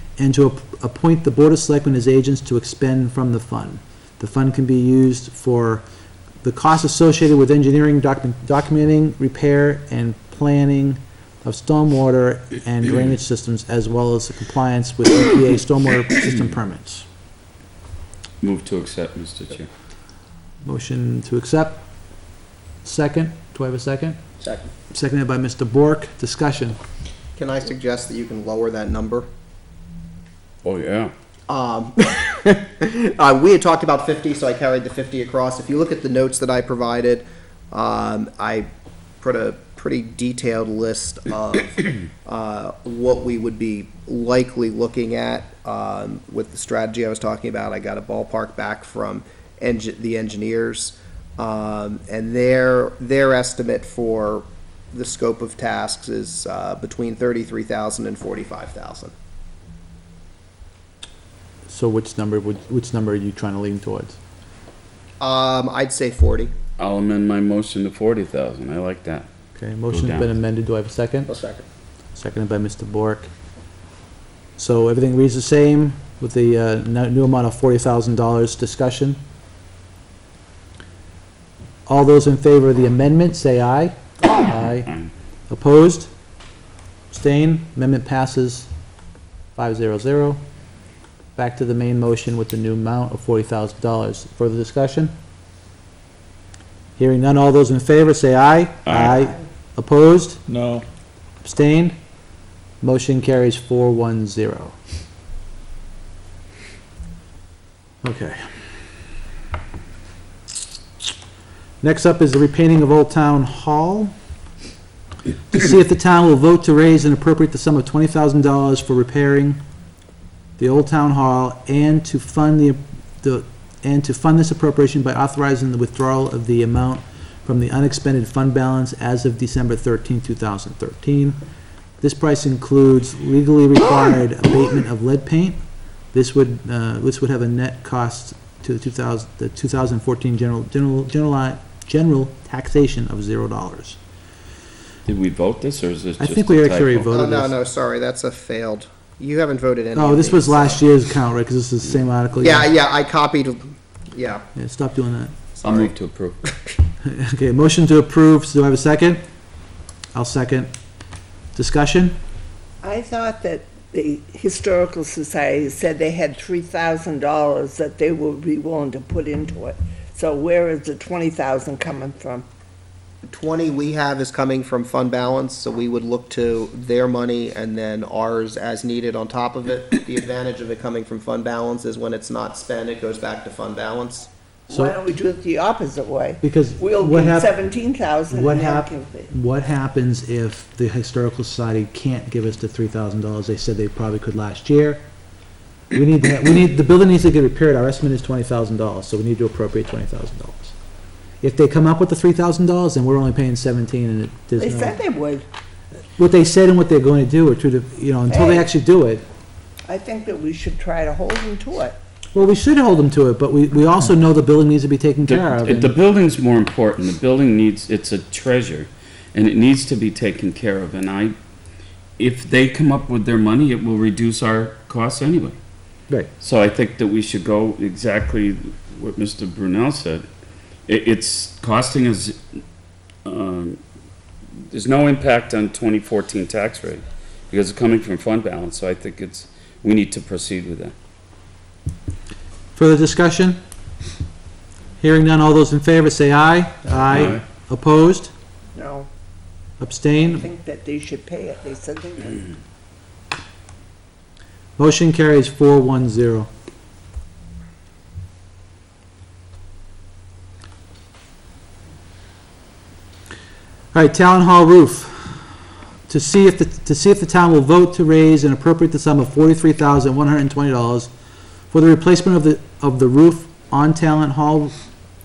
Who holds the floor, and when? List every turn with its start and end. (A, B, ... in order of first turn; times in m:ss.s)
0:00.2-0:05.8 A
0:06.4-0:17.0 A
0:18.4-0:19.7 B
0:20.6-0:21.8 A
0:22.8-0:24.2 A
0:24.4-0:24.7 C
0:24.9-0:26.8 A
0:27.4-0:29.3 C
0:30.6-0:31.1 B
0:31.5-0:38.7 C
0:39.2-0:59.1 C
1:01.7-1:04.2 A
1:05.2-1:06.5 C
1:06.8-1:09.3 B
1:09.6-1:11.3 A
1:09.9-1:10.3 B
1:11.3-1:11.7 C
1:12.1-1:13.3 A
1:14.6-1:19.2 A
1:21.9-1:24.9 A
1:24.2-1:25.1 B
1:25.5-1:26.1 A
1:27.1-1:28.7 A
1:29.6-1:30.4 A
1:31.4-1:35.1 A
1:37.0-1:40.4 A
1:38.9-1:39.2 B
1:41.4-1:41.9 A
1:42.8-1:44.8 A
1:48.0-1:48.6 A
1:51.8-1:54.1 A
1:55.5-1:59.6 A
2:00.6-2:11.4 A
2:12.0-2:15.6 A
2:16.1-2:24.0 A
2:25.1-2:27.2 B
2:26.2-2:27.5 A
2:27.1-2:30.8 C
2:30.0-2:32.7 A
2:32.4-2:34.4 C
2:34.6-2:35.4 A
2:35.6-2:35.9 C
2:35.6-2:36.4 B
2:37.0-2:39.2 A
2:40.1-2:40.7 A
2:41.6-2:42.2 A
2:42.8-2:52.5 D
2:53.2-3:04.3 C
3:04.7-3:09.3 D
3:04.7-3:05.0 A
3:06.4-3:07.5 A
3:08.3-3:15.0 A
3:15.9-3:20.8 A
3:21.4-3:25.0 A
3:24.6-3:25.5 D
3:26.2-3:29.2 A
3:28.3-3:28.7 D
3:29.9-3:32.0 D
3:32.3-3:35.9 A
3:35.2-3:41.4 B
3:42.2-3:45.6 B
3:46.4-3:50.2 B
3:50.9-3:52.4 B
3:53.2-3:53.8 B
3:54.7-4:00.9 B
4:02.8-4:03.6 A
4:05.0-4:08.3 A
4:07.1-4:07.4 B
4:08.8-4:09.1 D
4:09.8-4:10.5 A
4:10.1-4:12.6 D
4:14.8-4:16.5 A
4:23.9-4:25.4 A
4:26.1-4:31.1 A
4:31.7-4:34.8 A